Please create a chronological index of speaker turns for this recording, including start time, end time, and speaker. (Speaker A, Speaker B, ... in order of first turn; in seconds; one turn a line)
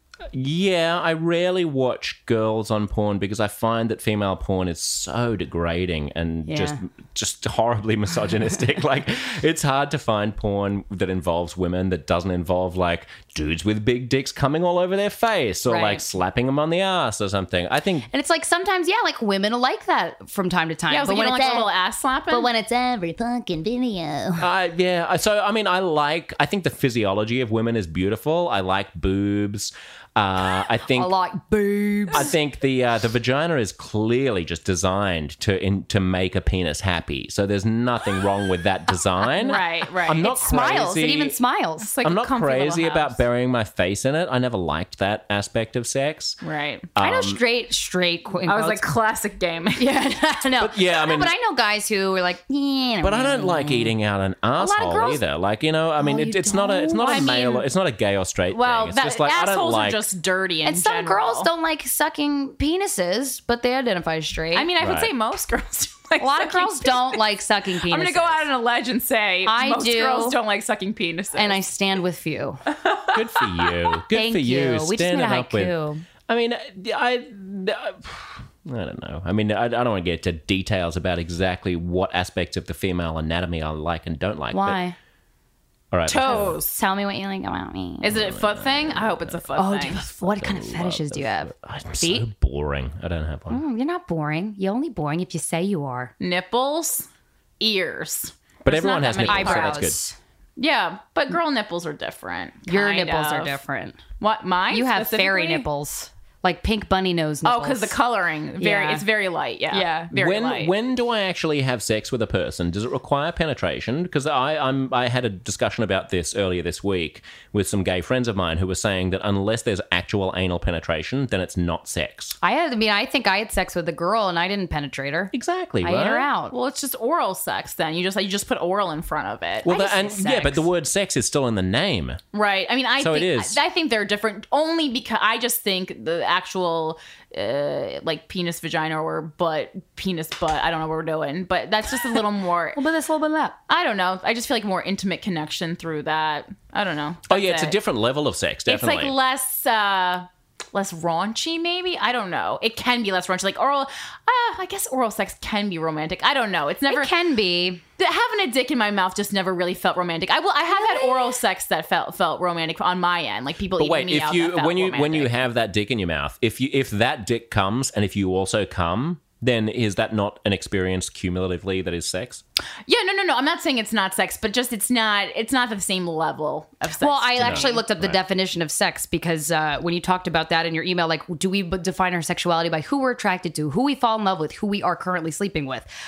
Speaker A: 0.3-18.1
Speaker B: 6.5-6.8
Speaker B: 15.7-16.1
Speaker B: 18.1-21.7
Speaker C: 20.9-22.5
Speaker B: 22.3-24.5
Speaker A: 24.4-31.1
Speaker B: 30.9-32.3
Speaker A: 32.1-41.4
Speaker C: 39.4-40.2
Speaker B: 40.2-41.9
Speaker C: 41.8-43.2
Speaker A: 42.0-46.4
Speaker C: 46.4-46.9
Speaker A: 47.0-47.4
Speaker B: 47.0-48.9
Speaker C: 48.4-49.9
Speaker B: 49.8-53.9
Speaker A: 50.6-51.3
Speaker A: 53.0-60.1
Speaker B: 54.6-55.2
Speaker B: 56.0-57.7
Speaker C: 58.5-61.5
Speaker B: 60.6-64.7
Speaker C: 64.5-67.2
Speaker A: 64.8-65.1
Speaker B: 66.2-68.5
Speaker C: 67.8-71.6
Speaker B: 69.5-70.4
Speaker B: 71.3-72.6
Speaker C: 72.7-73.7
Speaker A: 73.1-75.7
Speaker B: 74.1-76.0
Speaker A: 76.3-84.8
Speaker B: 84.5-85.0
Speaker A: 85.9-86.6
Speaker C: 86.1-86.7
Speaker B: 86.2-88.2
Speaker C: 88.0-90.0
Speaker A: 88.1-93.6
Speaker B: 89.6-92.3
Speaker B: 93.5-96.1
Speaker C: 96.2-97.1
Speaker C: 97.6-99.9
Speaker A: 98.6-100.0
Speaker B: 99.0-100.2
Speaker C: 100.6-103.6
Speaker B: 102.7-104.0
Speaker C: 104.2-105.7
Speaker B: 104.7-108.0
Speaker C: 107.4-110.7
Speaker B: 108.6-109.0
Speaker B: 109.7-110.1
Speaker A: 110.1-122.3
Speaker B: 122.4-126.5
Speaker A: 125.3-126.3
Speaker C: 126.5-129.7
Speaker B: 129.6-130.7
Speaker A: 129.6-132.2
Speaker C: 132.3-142.8
Speaker A: 133.0-133.6
Speaker B: 142.7-143.6
Speaker C: 143.7-147.8
Speaker A: 147.3-149.1
Speaker C: 148.7-157.1
Speaker B: 156.9-157.8
Speaker C: 158.0-165.3
Speaker B: 160.7-161.3
Speaker A: 163.8-172.4
Speaker C: 172.9-177.8
Speaker B: 177.0-185.9
Speaker A: 177.4-178.2